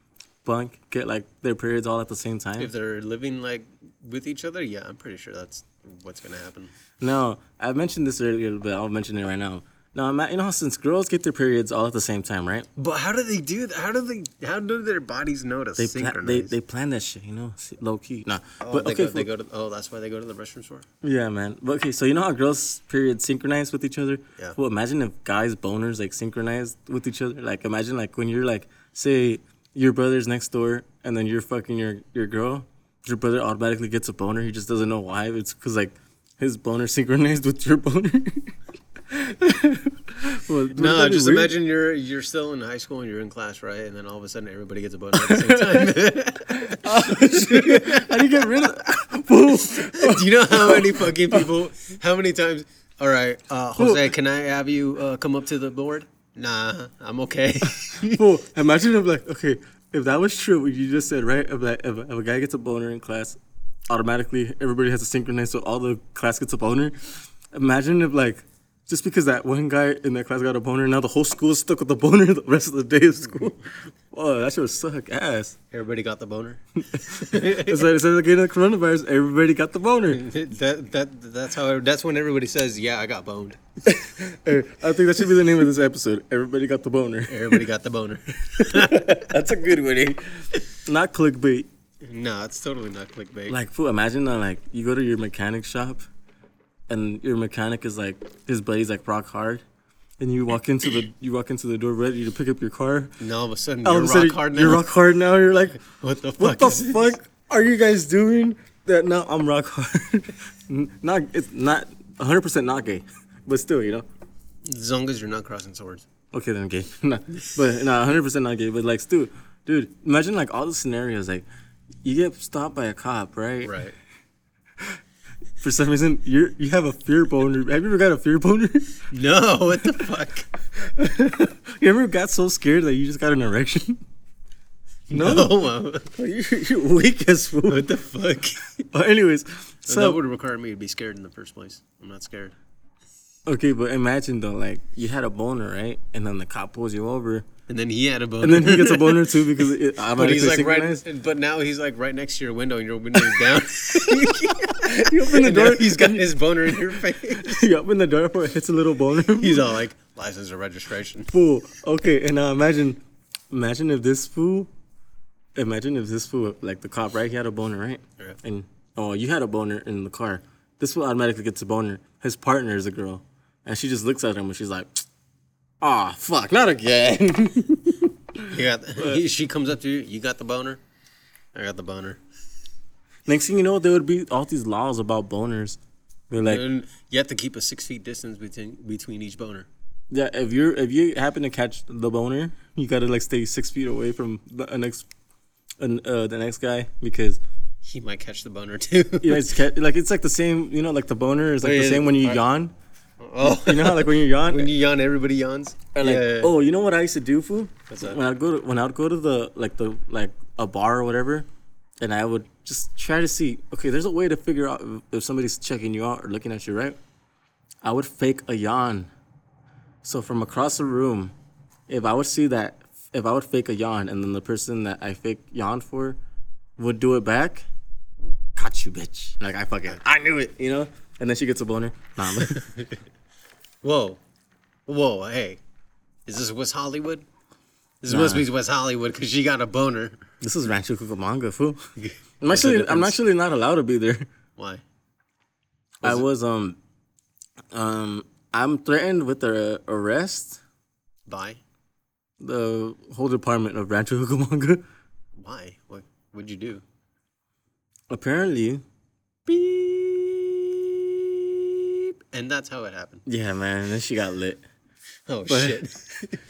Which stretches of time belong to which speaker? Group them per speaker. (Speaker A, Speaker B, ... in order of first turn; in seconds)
Speaker A: 0.5-2.7, 7.0-12.7, 15.8-19.3, 21.0-38.5, 39.1-41.5, 45.1-45.9, 46.5-51.5, 53.8-54.1, 58.1-63.4, 63.9-75.6, 76.9-80.2, 83.8-87.7, 88.6-91.7, 93.5-96.0, 96.9-99.6, 100.2-103.2, 103.8-105.8, 106.4-114.1, 116.3-121.5, 122.0-123.8, 125.6-129.0, 130.8-134.0, 135.1-135.5, 136.1-137.9, 138.9-140.2, 143.5-147.5, 148.4-151.0, 153.9-159.8, 161.3-164.7, 165.6-175.0, 175.8-178.4, 183.3-185.8, 186.3-186.6, 190.1-195.1, 195.8-197.4, 199.2-202.7, 203.4-204.7, 206.0-211.5, 212.0-217.0, 217.8-219.1, 220.0-221.3, 221.9-226.2, 226.8-227.7, 228.6-232.6, 238.1-238.5, 240.4-241.8, 242.4-244.3, 246.0-246.8, 247.7-250.6, 252.4-254.8, 258.1-258.8, 259.5-262.0, 263.3-264.6, 265.5-265.8
Speaker B: 2.6-6.7, 12.8-16.6, 18.6-20.9, 40.8-48.6, 49.6-58.3, 75.7-77.9, 80.1-83.6, 87.3-89.3, 92.0-93.6, 103.2-104.9, 105.9-107.2, 114.7-116.0, 123.7-124.0, 129.1-130.5, 135.1-136.1, 137.7-138.8, 139.9-142.6, 147.7-157.7, 159.3-161.3, 178.5-180.8, 181.6-182.2, 186.4-189.7, 197.8-199.5, 201.6-202.4, 203.2-206.5, 207.9-208.2, 232.4-233.0, 233.8-234.2, 234.9-235.6, 236.3-237.3, 238.0-240.2, 242.0-243.2, 244.6-244.8, 251.3-251.6, 255.4-256.8, 262.3-263.2, 265.3-266.4